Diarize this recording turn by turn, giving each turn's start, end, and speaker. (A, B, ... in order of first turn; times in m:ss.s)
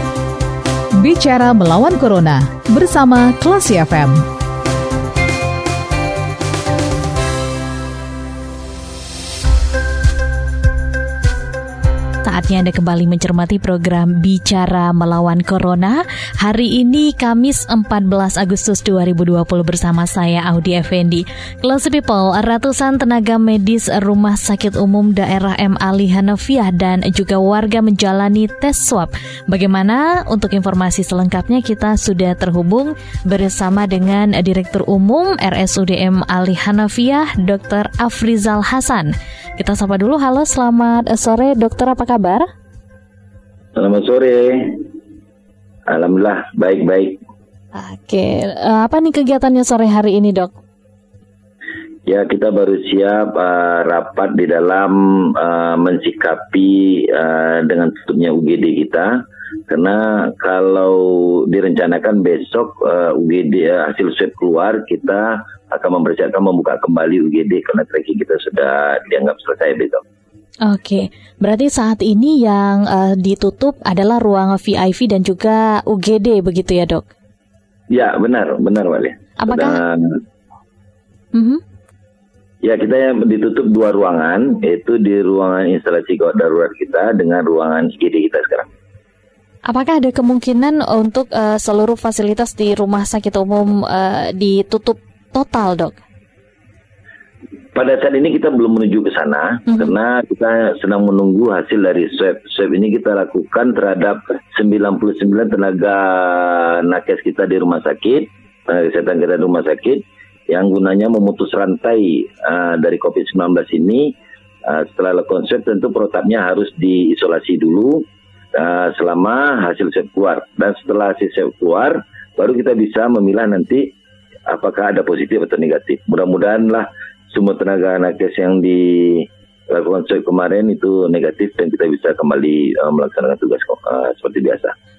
0:01.0-0:04.2 A
0:12.2-0:42.5 B
0:43.8-0:44.8 C
0:45.9-0:47.2 C
0:47.7-0:50.5 B
0:52.1-1:10.0 C
1:10.7-1:17.1 B
1:17.9-1:20.2 C
1:19.4-1:19.8 B
1:21.3-1:21.6 B
1:22.6-1:28.7 C
1:29.6-1:36.0 B
1:37.8-2:03.9 C
2:04.5-2:14.7 C